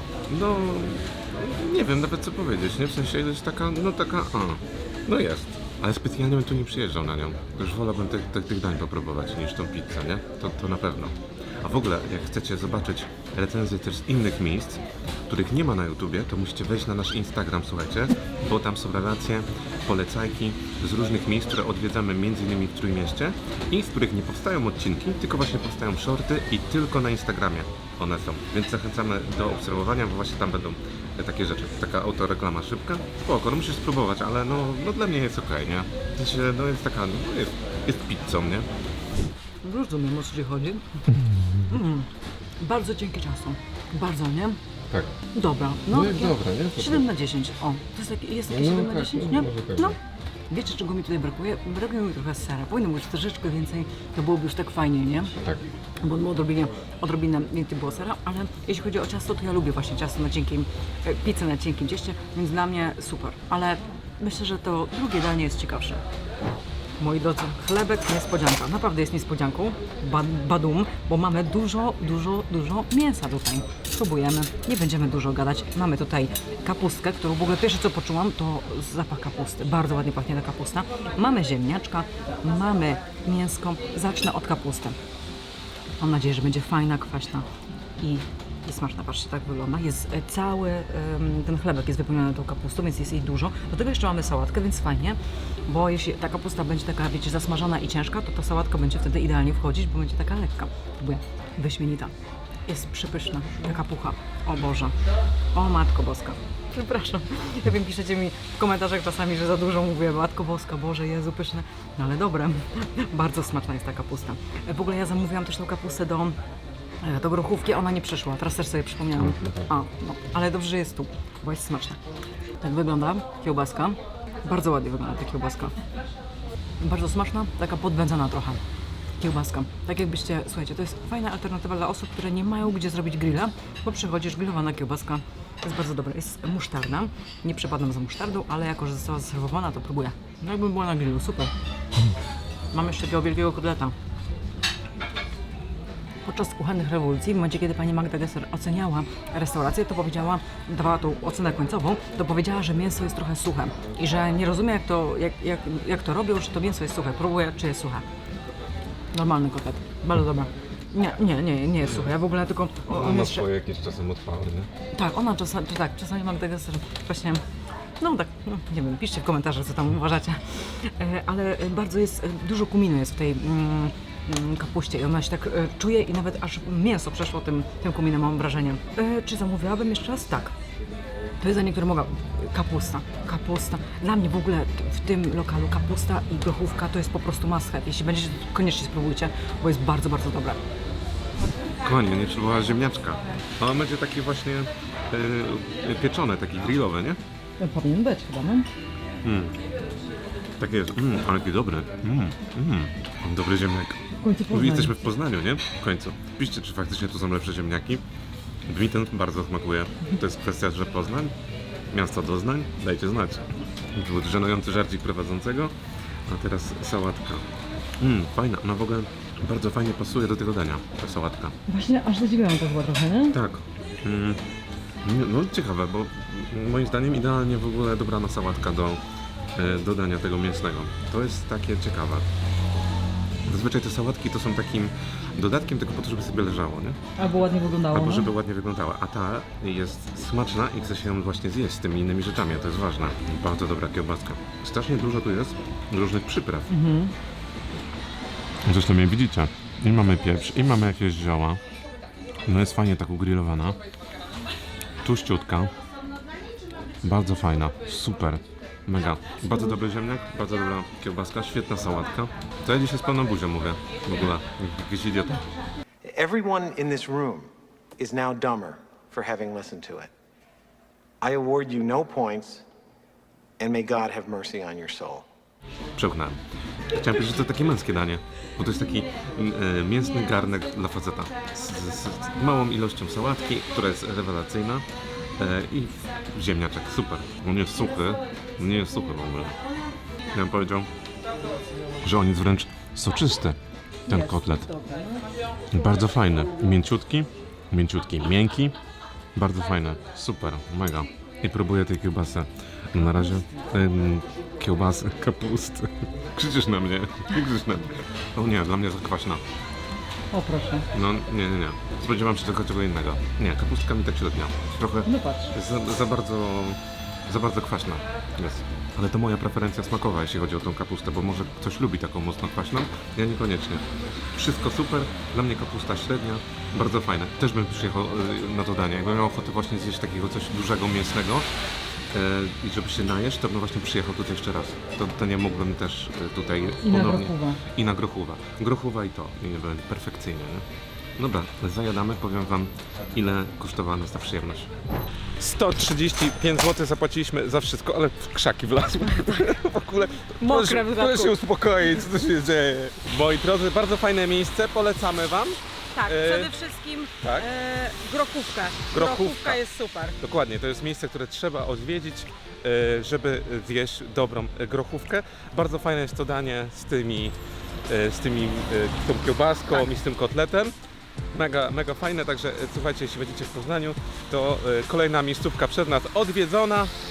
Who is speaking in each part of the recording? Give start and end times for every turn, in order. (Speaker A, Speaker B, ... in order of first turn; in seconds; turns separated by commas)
Speaker A: 0.3-38.7, Speaker B: 39.6-40.9, Speaker B: 41.7-42.1, Speaker B: 42.6-44.6, Speaker B: 45.3-50.0, Speaker A: 45.9-47.1, Speaker A: 48.5-50.0, Speaker B: 50.5-55.3, Speaker A: 55.3-55.7, Speaker B: 56.0-66.0, Speaker B: 67.0-85.0, Speaker B: 86.0-87.5, Speaker B: 88.0-102.1, Speaker B: 102.7-105.0, Speaker B: 105.5-116.4, Speaker B: 117.0-122.0, Speaker B: 122.6-125.8, Speaker B: 126.8-128.6, Speaker B: 129.2-141.5, Speaker B: 142.7-143.9, Speaker B: 146.2-158.1, Speaker B: 159.1-163.5, Speaker A: 161.8-162.1, Speaker A: 162.9-164.7, Speaker B: 164.9-167.4, Speaker B: 168.0-180.5, Speaker B: 181.4-190.6, Speaker A: 191.8-197.2, Speaker B: 197.6-198.7, Speaker A: 199.2-199.6, Speaker A: 200.6-208.0, Speaker B: 204.2-204.9, Speaker A: 208.7-211.3, Speaker A: 211.9-215.8, Speaker A: 216.3-217.5, Speaker A: 218.0-221.6, Speaker B: 221.7-223.3, Speaker A: 223.3-224.4, Speaker A: 225.0-229.0, Speaker A: 229.6-232.3, Speaker A: 233.5-237.0, Speaker B: 237.2-238.3, Speaker A: 237.9-246.7, Speaker B: 246.7-247.1, Speaker A: 248.7-251.6, Speaker A: 252.5-253.8, Speaker A: 255.0-255.7, Speaker A: 257.0-265.4, Speaker C: 266.1-270.1, Speaker C: 271.2-272.6, Speaker C: 273.6-275.3, Speaker A: 276.0-276.4, Speaker A: 276.9-284.9, Speaker A: 285.4-289.6, Speaker A: 290.3-290.9, Speaker A: 292.0-294.7, Speaker B: 294.1-295.2, Speaker A: 295.7-298.8, Speaker A: 299.4-309.4, Speaker B: 303.0-303.4, Speaker B: 310.3-310.9, Speaker A: 310.9-331.5, Speaker B: 315.1-315.5, Speaker A: 332.1-340.6, Speaker B: 336.8-337.6, Speaker A: 341.2-344.7, Speaker A: 345.4-356.5, Speaker B: 349.1-349.5, Speaker B: 350.4-351.4, Speaker B: 355.9-360.2, Speaker A: 357.2-357.5, Speaker A: 358.9-359.6, Speaker A: 360.2-367.4, Speaker A: 367.9-370.7, Speaker A: 371.3-376.9